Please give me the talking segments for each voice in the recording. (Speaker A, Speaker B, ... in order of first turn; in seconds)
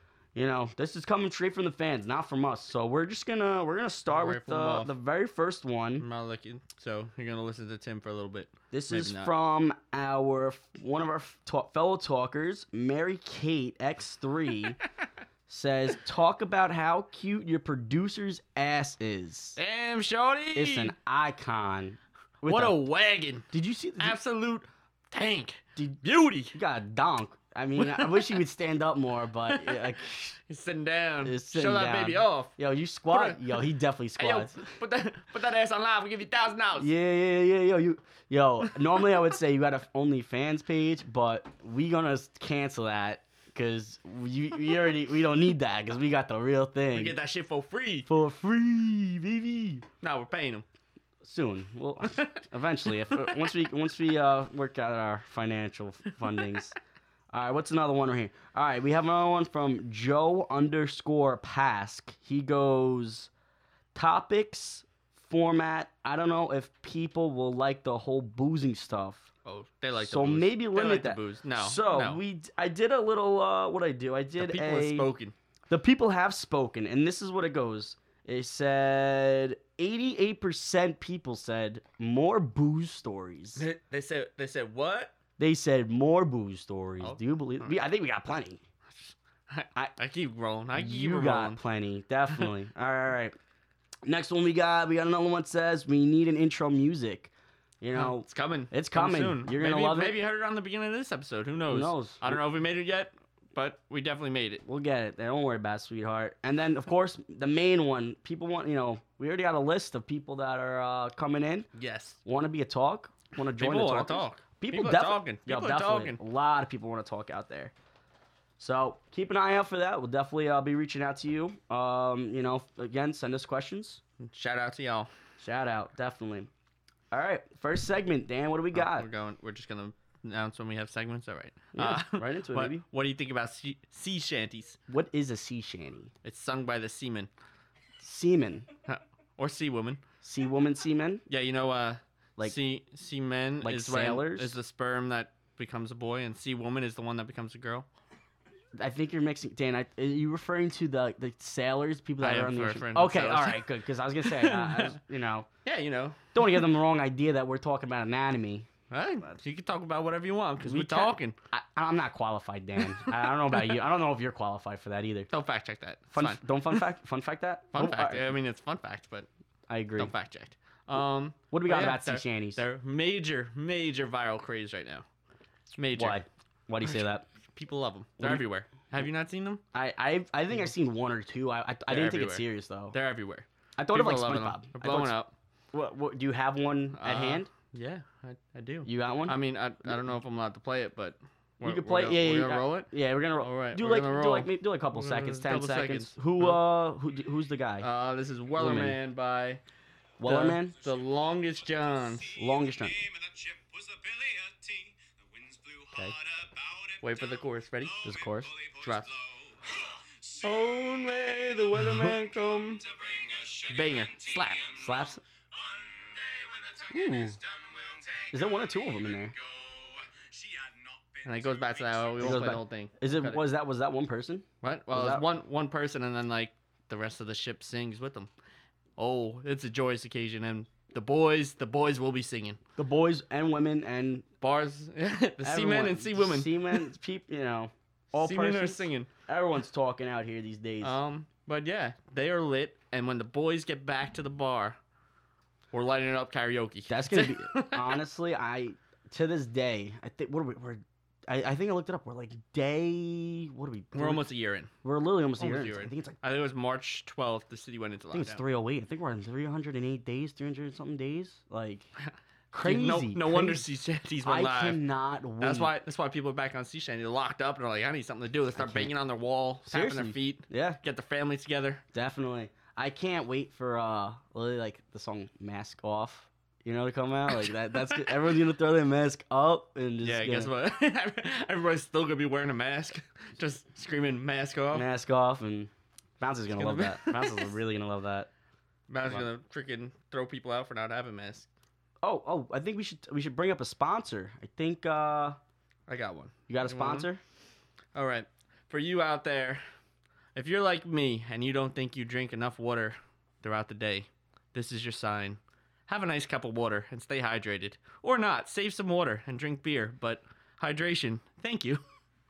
Speaker A: 0.3-6.0, 8.7-14.8, 15.5-19.6, 20.5-22.8, 23.5-24.2, 26.5-30.4, 31.2-34.7, 36.8-47.2, 48.0-49.8, 51.2-56.7, 57.3-63.3, 63.9-69.3, 70.0-75.1, 75.7-83.7, 85.4-88.6, 90.7-93.4, 94.0-100.2, 101.7-102.4, 104.7-111.7, 112.2-117.7, 118.6-124.0, 125.4-126.5, 127.1-129.1, 131.7-132.8, 134.9-136.1, 138.0-138.7, 140.2-141.2, 143.6-144.5, 148.8-155.5, 156.3-158.7, 160.6-165.3, 166.1-168.3, 169.7-170.1, 171.5-172.6, 175.9-177.2, 179.7-182.9, 183.8-185.2, 185.7-187.5, 188.8-189.4, 191.6-197.9, 198.6-199.0, 200.2-200.8, 202.3-203.0, 208.0-208.5, 214.8-215.2, 216.9-217.4, 218.3-219.3, 222.2-225.2, 232.8-234.2, 235.4-240.9, 246.9-254.2, 254.8-256.2, 258.1-261.9, 262.5-263.6, 264.2-265.7, 268.5-268.9, 269.6-270.8, 271.9-280.5, 284.7-288.3, 292.0-295.4, 296.5-297.2
Speaker B: 4.1-4.9, 6.0-9.3, 19.6-20.9, 22.5-23.5, 24.0-26.6, 27.8-28.3, 29.5-30.0, 30.5-32.5, 33.1-33.5, 34.2-36.9, 46.9-48.1, 50.0-50.6, 52.0-52.3, 69.4-72.2, 74.4-75.3, 83.5-85.1, 87.0-87.8, 88.9-91.6, 97.9-104.6, 111.7-112.2, 113.5-116.2, 124.2-125.1, 128.7-134.8, 136.2-137.3, 138.8-140.0, 141.3-147.9, 152.2-153.7, 154.2-155.0, 155.7-156.5, 158.9-161.4, 165.3-166.8, 167.7-169.3, 170.0-175.0, 175.7-176.2, 176.8-179.6, 181.9-185.3, 186.9-192.9, 193.4-196.6, 197.8-199.6, 200.2-202.4, 207.0-208.0, 208.8-209.1, 210.4-212.8, 213.7-214.7, 221.2-223.4, 224.6-228.3, 229.0-232.6, 234.4-236.9, 238.1-239.1, 240.8-244.8, 245.7-248.0, 253.9-254.7, 255.4-258.4, 262.0-264.8, 265.4-271.8, 280.0-284.9, 286.5-287.5, 288.9-291.5, 295.9-297.1, 297.9-299.6, 300.4-311.8
Speaker C: 201.7-211.5, 212.0-222.5